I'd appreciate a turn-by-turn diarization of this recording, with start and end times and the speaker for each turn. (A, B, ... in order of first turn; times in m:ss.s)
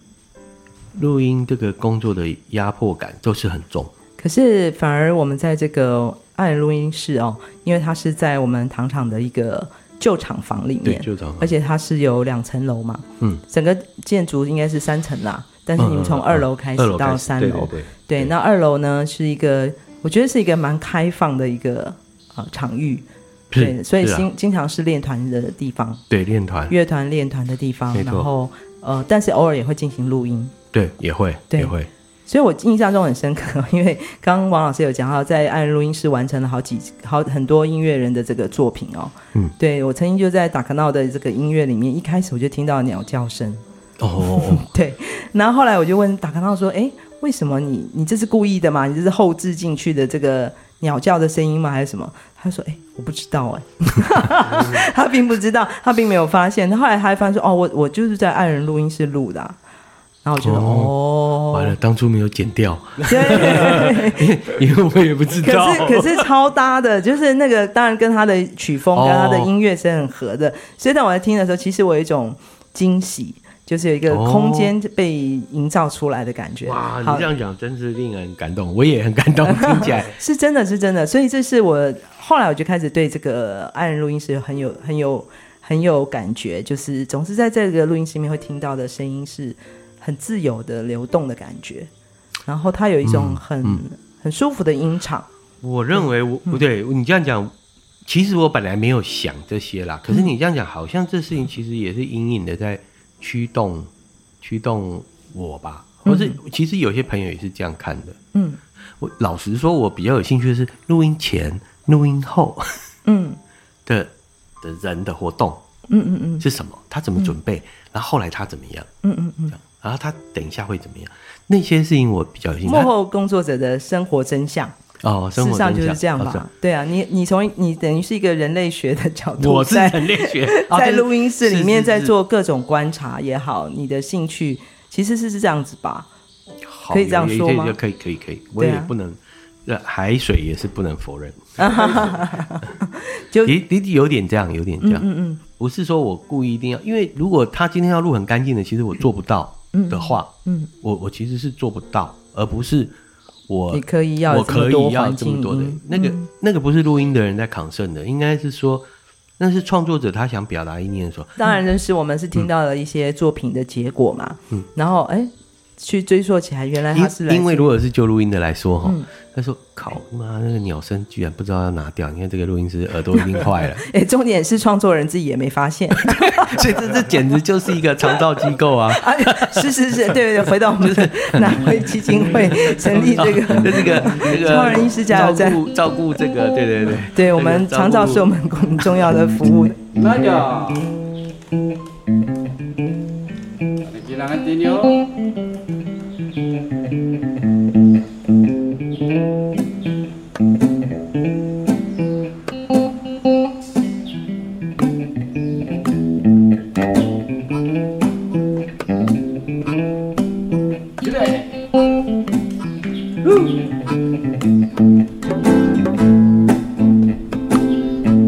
0:00.9-0:03.9 A
0:04.2-0:26.0 B
0:10.8-0:11.5 A
0:15.8-0:18.3 A
0:23.5-0:24.3 A
0:26.1-0:26.7 A
0:26.7-0:30.5 B
0:27.9-0:28.3 A
0:30.7-0:31.9 A
0:32.2-0:43.6 B
0:44.0-0:44.7 A
0:44.2-0:59.6 B
1:00.2-1:01.8 B
1:00.4-1:00.9 A
1:01.5-1:06.3 A
1:03.0-1:04.4 B
1:05.3-1:17.3 B
1:08.9-1:09.5 A
1:14.1-1:14.7 A
1:16.6-1:20.2 A
1:19.4-1:31.9 B
1:32.4-1:35.3 B
1:33.0-1:33.8 A
1:35.6-1:37.5 A
1:38.0-1:48.2 A
1:46.0-1:46.4 B
1:48.3-1:48.6 B
1:49.0-1:52.8 A
1:53.0-1:53.4 B
1:53.8-1:55.6 A
1:55.9-1:56.4 B
1:56.4-1:58.9 A
1:59.0-1:59.6 B
1:59.6-2:02.9 A
2:02.6-2:04.8 B
2:05.0-2:06.4 A
2:05.4-2:16.1 B
2:09.4-2:12.1 A
2:16.6-2:22.2 A
2:16.9-2:17.8 B
2:18.6-2:18.9 B
2:21.6-2:23.6 B
2:23.4-2:33.0 A
2:24.8-2:25.4 B
2:29.7-2:30.7 B
2:33.5-2:38.9 A
2:33.7-2:36.3 B
2:39.4-2:41.6 A
2:41.4-2:47.7 B
2:46.9-2:53.8 A
2:53.2-2:57.1 B
2:56.0-3:08.3 A
2:58.9-3:05.6 B
3:07.1-3:09.8 B
3:08.8-3:09.2 A
3:09.9-3:10.9 C
3:13.8-3:15.1 C
3:31.0-3:31.5 C